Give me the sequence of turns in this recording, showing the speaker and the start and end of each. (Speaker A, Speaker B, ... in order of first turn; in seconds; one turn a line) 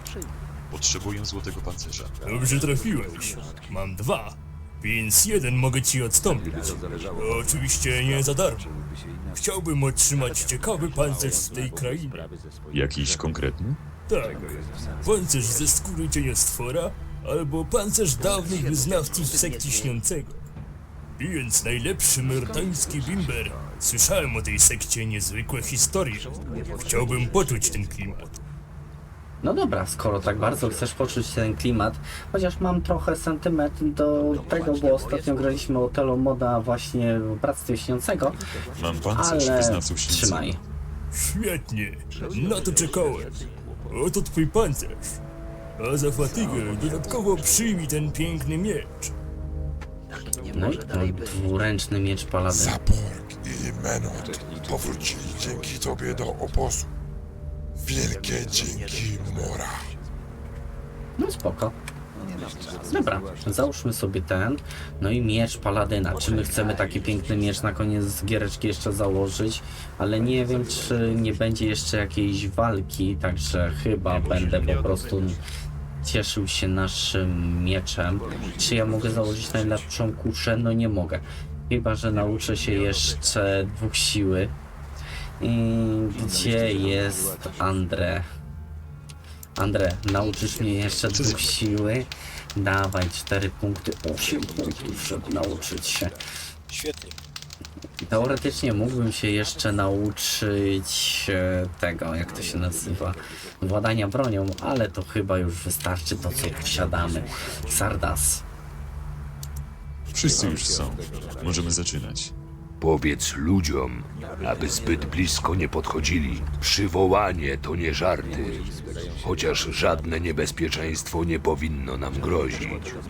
Speaker A: 0.7-2.1
Speaker B: 2.2-8.7
Speaker B: 9.3-12.3
Speaker A: 12.7-13.8
Speaker B: 14.1-20.4
Speaker B: 21.2-28.4
Speaker C: 29.4-38.4
Speaker A: 38.8-40.5
Speaker C: 39.2-40.6
Speaker B: 41.1-43.4
Speaker B: 43.9-45.2
Speaker B: 45.8-49.1
Speaker C: 50.5-52.8
Speaker D: 52.5-56.9
Speaker D: 57.8-59.8
Speaker C: 61.2-61.8
Speaker C: 62.9-75.4
Speaker C: 76.0-84.5
Speaker C: 85.4-88.3
Speaker C: 89.6-96.2
Speaker A: 91.1-91.4
Speaker C: 98.0-108.4
Speaker A: 110.1-112.3
Speaker E: 112.8-123.0